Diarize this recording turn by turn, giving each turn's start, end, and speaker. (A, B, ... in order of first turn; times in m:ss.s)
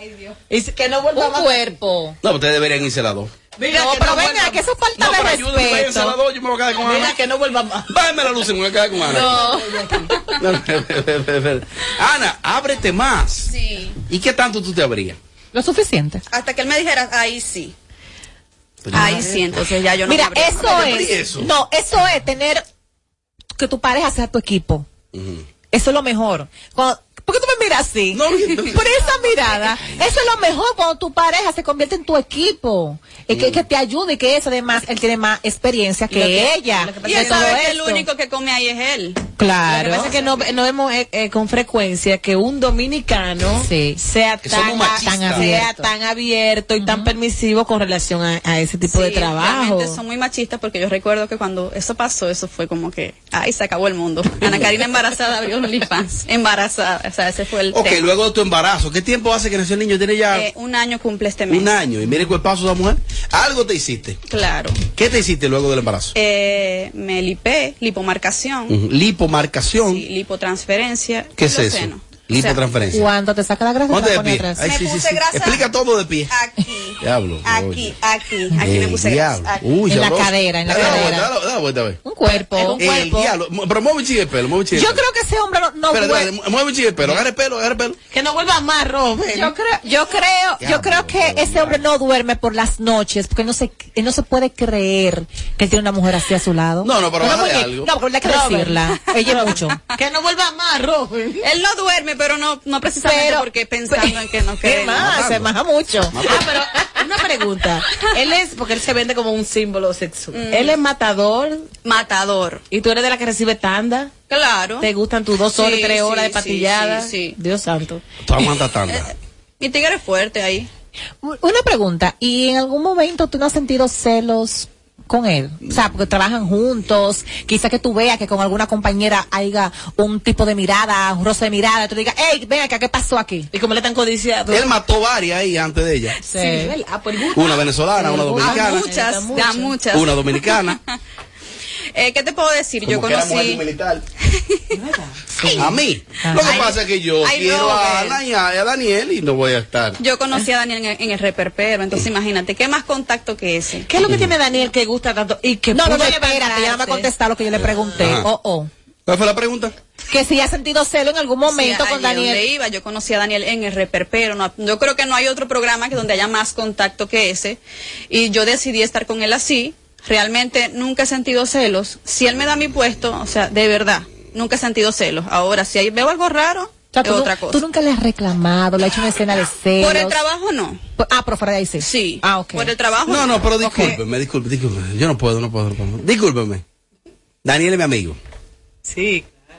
0:00.5-0:01.7 A
0:01.1-0:02.2 B
0:02.2-0:03.3 C
0:03.6-0:04.6 A
0:03.7-0:06.2 B
0:05.0-0:07.2 C
0:06.8-0:07.9 A
0:07.9-0:09.5 C
0:09.1-0:10.2 A
0:10.4-0:13.5 C
0:13.5-0:14.0 D
0:14.1-0:15.2 C
0:15.5-0:16.2 B
0:16.3-0:17.8 D
0:18.8-0:19.7 C
0:18.9-0:21.1 D
0:20.1-0:22.6 B
0:20.6-0:21.5 C
0:23.6-0:24.9 B
0:25.1-0:25.4 C
0:25.7-0:38.0 B
0:28.1-0:28.8 C
0:33.3-0:33.6 C
0:36.1-0:37.7 A
0:37.0-0:39.2 D
0:39.4-0:40.1 B
0:39.7-0:50.0 A
0:43.6-0:44.0 B
0:44.4-0:45.5 C
0:44.8-0:45.9 B
0:46.8-0:47.1 B
0:48.9-0:58.0 D
0:57.7-1:00.5 C
1:00.3-1:01.8 D
1:01.5-1:04.2 C
1:04.3-1:04.8 D
1:04.9-1:06.1 C
1:06.2-1:08.8 D
1:08.7-1:10.0 C
1:09.8-1:12.6 D
1:11.4-1:13.1 C
1:12.9-1:14.6 B
1:13.9-1:16.3 C
1:14.6-1:15.7 D
1:16.3-1:19.6 D
1:17.0-1:17.9 C
1:18.6-1:22.0 C
1:19.9-1:21.3 B
1:22.0-1:23.3 B
1:22.6-1:23.2 A
1:22.8-1:25.0 C
1:24.7-1:26.3 B
1:25.9-1:28.0 C
1:28.1-1:29.5 A
1:29.3-1:39.8 B
1:30.6-1:31.8 C
1:36.8-1:37.9 C
1:38.2-1:41.4 A
1:41.4-1:45.2 D
1:43.0-1:46.5 B
1:44.9-1:45.5 C
1:46.1-1:46.5 C
1:46.2-1:51.7 A
1:50.3-1:50.8 D
1:51.8-1:52.6 D
1:52.7-1:54.1 A
1:54.3-1:54.9 D
1:54.8-1:58.0 A
1:55.6-1:57.4 D
1:58.2-1:59.1 C
1:58.9-2:00.7 D
2:01.2-2:13.5 B
2:13.5-2:14.7 A
2:14.5-2:16.2 C
2:16.2-2:19.8 A
2:16.3-2:16.8 B
2:17.3-2:18.9 C
2:18.4-2:20.8 D
2:19.9-2:20.8 C
2:21.9-2:23.6 D
2:22.8-2:24.0 C
2:24.4-2:24.8 D
2:24.7-2:26.4 A
2:25.4-2:25.7 B
2:25.6-2:30.0 C
2:26.4-2:28.2 D
2:30.0-2:33.9 D
2:33.9-2:37.1 A
2:34.0-2:34.3 C
2:35.7-2:38.7 B
2:38.0-2:38.3 C
2:39.1-2:39.8 C
2:40.1-2:42.4 B
2:41.5-2:47.6 D
2:48.1-2:57.6 D
2:56.9-3:00.2 B
2:59.8-3:00.8 D
3:01.0-3:02.7 B
3:01.8-3:03.9 D
3:03.1-3:06.6 C
3:03.6-3:04.0 B
3:07.4-3:08.2 C
3:08.9-3:09.3 A